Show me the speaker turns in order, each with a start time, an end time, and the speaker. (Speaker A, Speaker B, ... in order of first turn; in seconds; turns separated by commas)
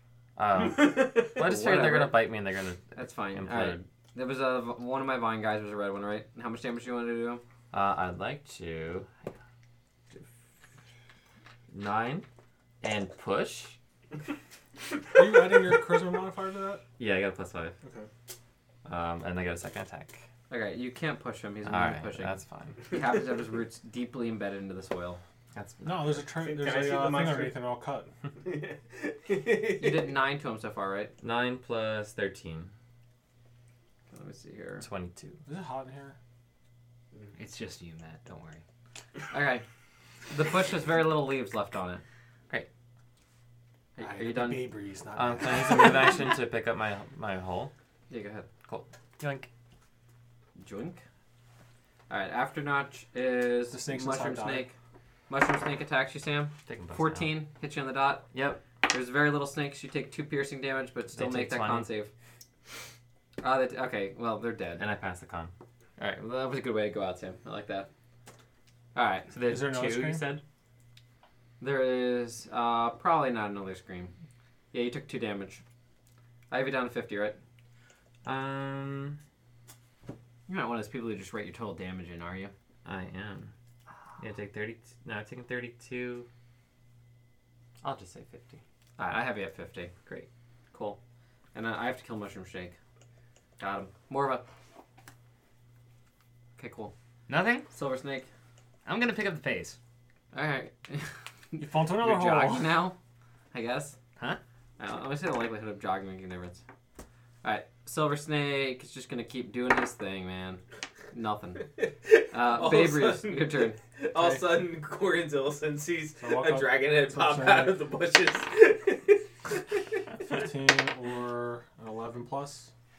Speaker A: 0.3-3.8, Speaker B: 1.4-2.3, Speaker B: 2.9-7.4, Speaker A: 7.7-9.3, Speaker A: 11.7-12.2, Speaker A: 12.8-13.8, Speaker C: 15.1-16.8, Speaker A: 17.0-17.7, Speaker C: 17.8-18.1, Speaker A: 18.8-20.2, Speaker B: 20.5-25.2, Speaker A: 21.6-22.9, Speaker A: 25.5-26.2, Speaker C: 25.8-28.1, Speaker D: 26.4-27.6, Speaker D: 28.3-30.1, Speaker B: 29.8-31.1, Speaker A: 31.2-32.7, Speaker B: 34.1-34.9, Speaker A: 34.8-35.4, Speaker C: 35.4-36.2, Speaker E: 37.3-38.6, Speaker B: 39.3-39.6, Speaker B: 40.3-42.0, Speaker B: 44.0-44.7, Speaker C: 44.0-46.3, Speaker A: 45.1-47.7, Speaker B: 48.1-48.5, Speaker A: 48.6-49.5, Speaker B: 50.6-51.0, Speaker B: 52.1-54.7, Speaker C: 53.7-54.7, Speaker B: 55.3-58.3, Speaker A: 56.6-57.3, Speaker A: 58.3-58.6, Speaker B: 58.9-62.1, Speaker A: 61.1-61.9, Speaker B: 63.4-64.8, Speaker A: 64.8-65.5, Speaker B: 66.0-67.9, Speaker B: 68.9-69.3, Speaker A: 69.3-70.4, Speaker C: 69.5-70.2, Speaker B: 71.6-74.1, Speaker B: 74.7-75.6, Speaker B: 76.5-77.4, Speaker A: 78.2-79.2, Speaker B: 80.5-82.5, Speaker A: 82.8-83.5, Speaker A: 84.2-86.3, Speaker A: 87.8-88.6, Speaker B: 89.0-89.9, Speaker B: 90.7-91.0, Speaker B: 91.5-92.8, Speaker B: 93.6-94.4, Speaker B: 96.6-96.9, Speaker E: 97.3-97.7, Speaker B: 97.7-98.3, Speaker E: 98.8-99.8, Speaker B: 100.3-103.0, Speaker C: 101.6-102.8, Speaker B: 103.5-104.0, Speaker B: 104.8-106.6, Speaker B: 107.4-111.7, Speaker D: 111.8-119.6, Speaker B: 112.3-113.8, Speaker C: 114.2-114.5, Speaker C: 116.2-117.8, Speaker C: 120.2-122.7